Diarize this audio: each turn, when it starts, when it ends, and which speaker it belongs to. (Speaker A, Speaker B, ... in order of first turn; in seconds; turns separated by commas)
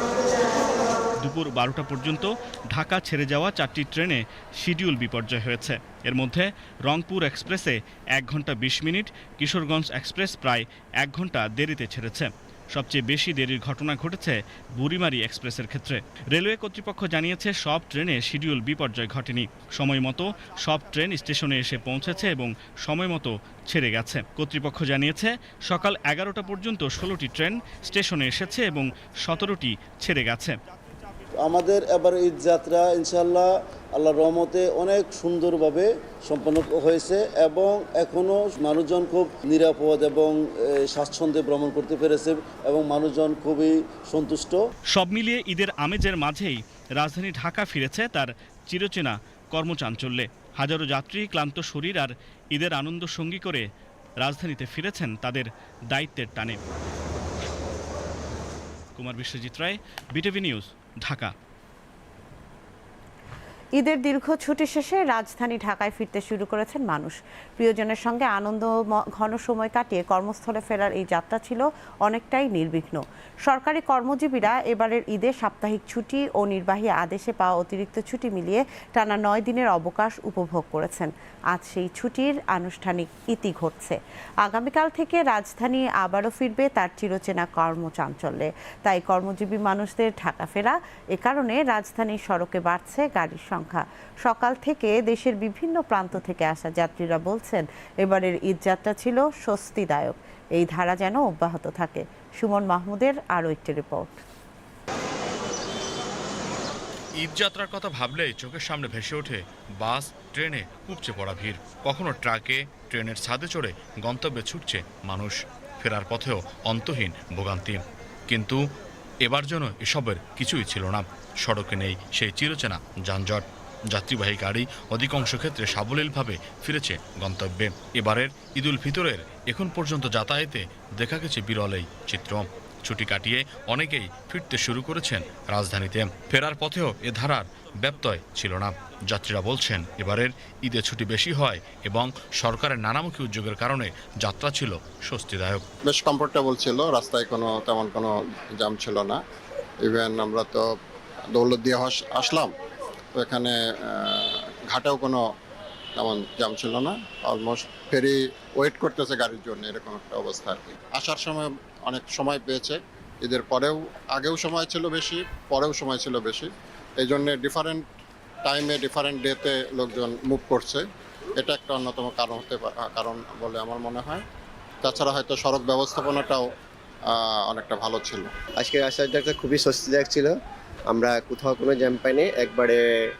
Speaker A: 1.2-30.6, Speaker B: 31.4-44.6, Speaker A: 44.9-53.6, Speaker A: 54.2-56.6, Speaker A: 59.0-61.3, Speaker C: 63.8-73.0, Speaker C: 73.5-83.9, Speaker C: 84.5-104.2, Speaker D: 107.2-118.6, Speaker D: 119.2-145.7, Speaker E: 146.0-149.2, Speaker F: 146.9-148.1, Speaker F: 148.6-149.2, Speaker F: 149.9-150.6, Speaker E: 150.0-150.6, Speaker E: 151.4-152.5, Speaker F: 152.1-152.5, Speaker E: 153.2-153.5, Speaker E: 154.7-155.2, Speaker E: 156.0-166.5, Speaker F: 157.3-158.1, Speaker F: 158.7-161.1, Speaker F: 163.3-163.7, Speaker E: 167.0-167.8, Speaker E: 168.5-170.8, Speaker F: 169.8-170.8, Speaker E: 171.4-174.2, Speaker F: 171.8-173.8, Speaker E: 174.9-176.4, Speaker F: 176.1-176.4, Speaker F: 177.5-180.3, Speaker E: 177.5-178.3, Speaker F: 180.9-182.8